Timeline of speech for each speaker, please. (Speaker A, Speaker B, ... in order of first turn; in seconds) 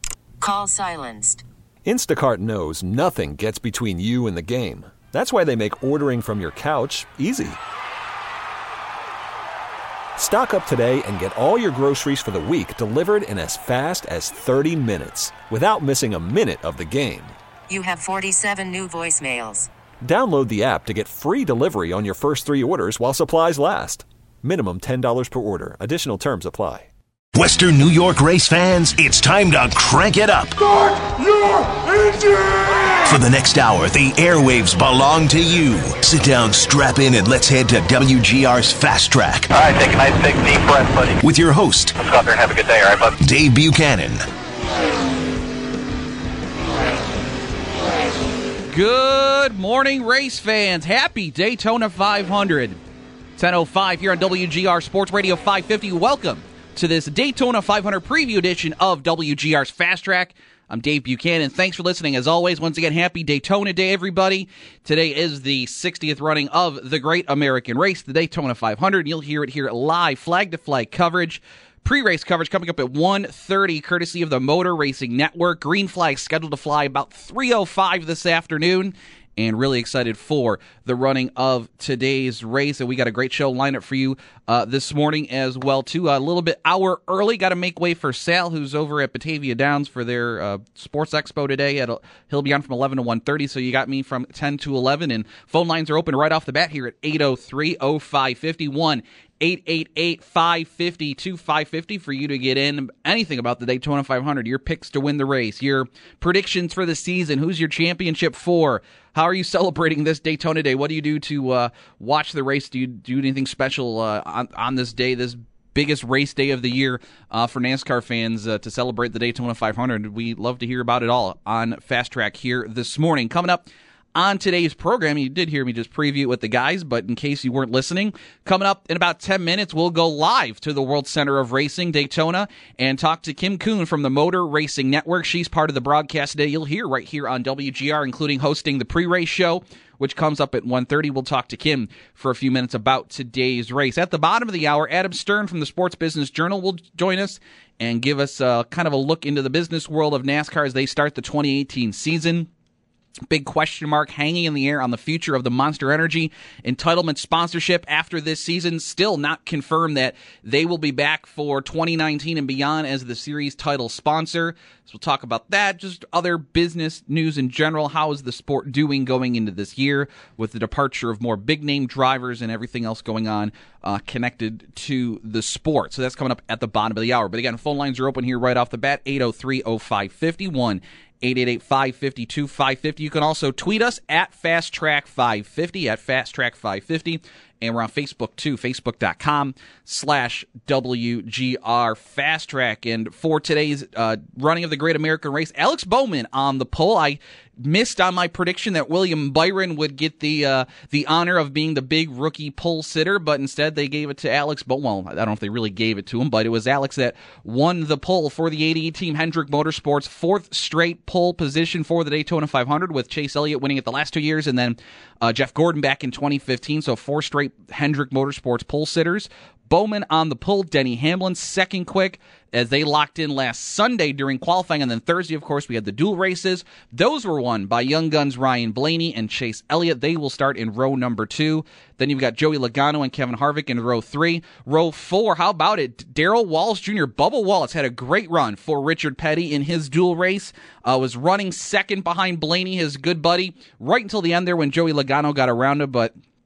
Speaker A: 0.4-1.4, 17.7-19.7
Speaker B: 1.9-7.6, 10.2-17.4, 20.0-26.9
Speaker C: 27.3-31.2, 33.0-39.5, 41.2-42.0, 43.2-44.3
Speaker D: 39.5-41.2, 42.0-43.1
Speaker E: 48.7-52.8, 53.4-152.5, 153.3-246.1